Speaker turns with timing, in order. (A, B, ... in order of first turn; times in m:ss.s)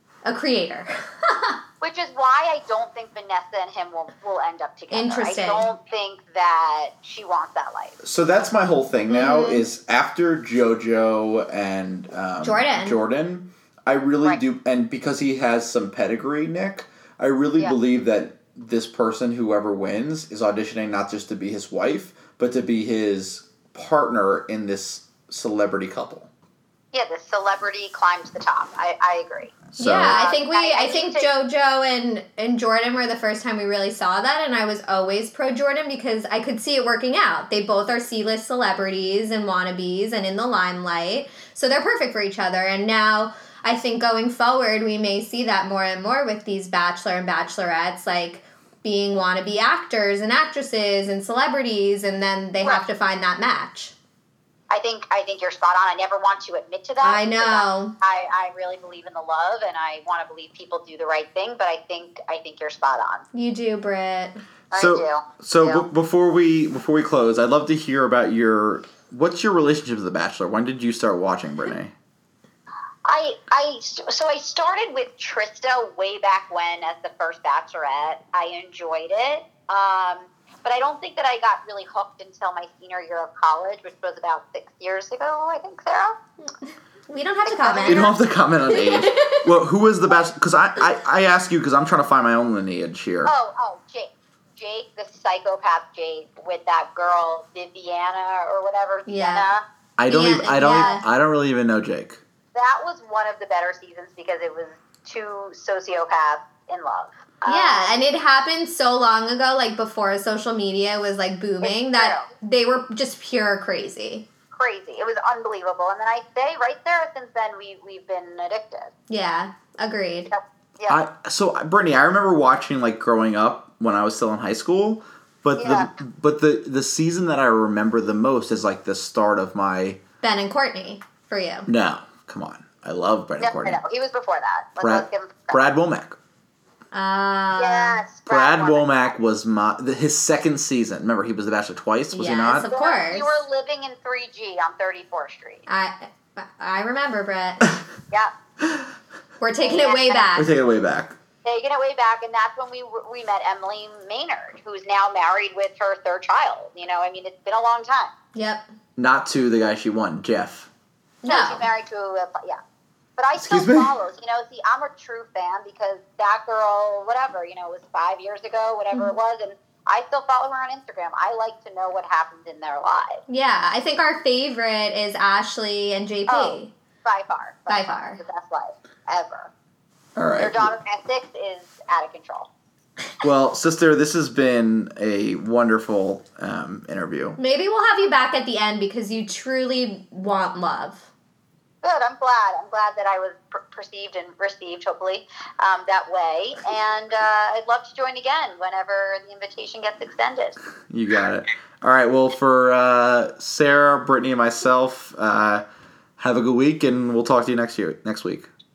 0:00.2-0:01.6 A
0:01.8-0:08.0 B
0:04.9-0:05.7 A
0:08.0-0:26.3 C
0:09.1-0:09.6 A
0:12.4-0:13.0 A
0:26.9-0:31.3 B
0:29.8-0:53.9 A
0:29.8-0:30.2 C
0:54.7-1:03.2 B
0:57.0-0:57.9 A
1:03.3-1:04.4 A
1:04.7-1:05.8 B
1:04.7-1:11.9 C
1:13.0-1:26.2 B
1:27.1-1:28.1 A
1:27.4-1:28.2 B
1:27.8-1:33.3 C
1:28.7-1:29.5 A
1:33.2-1:39.6 B
1:39.1-1:39.5 A
1:40.0-1:42.2 C
1:40.1-1:41.0 A
1:40.6-1:41.0 B
1:42.5-1:48.0 B
1:47.4-1:54.3 A
1:51.6-1:52.3 B
1:54.5-1:58.9 B
1:59.1-2:00.3 A
2:00.3-2:01.0 B
2:00.9-2:10.0 C
2:05.6-2:05.9 B
2:10.2-2:11.7 A
2:11.7-2:13.8 C
2:13.4-2:15.6 B
2:14.8-2:16.2 C
2:16.9-2:18.0 A
2:17.6-2:19.0 B
2:18.3-2:22.7 C
2:22.1-2:23.4 A
2:22.6-2:25.6 B
2:25.7-2:27.7 A
2:28.6-2:28.9 C
2:29.4-2:30.5 A
2:29.6-2:30.3 B
2:30.3-2:31.2 C
2:31.4-2:38.1 B
2:38.3-2:38.7 A
2:39.0-2:40.7 C
2:41.2-2:41.6 A
2:41.2-2:42.6 B
2:43.2-2:53.2 B
2:43.4-2:43.9 C
2:53.3-2:56.7 A
2:56.3-2:59.5 B
2:57.7-2:58.2 A
3:00.2-3:00.7 C
3:00.4-3:02.5 B
3:03.2-3:07.4 C
3:07.4-3:11.1 A
3:11.8-3:20.6 B
3:20.9-3:25.6 C
3:26.2-3:28.5 C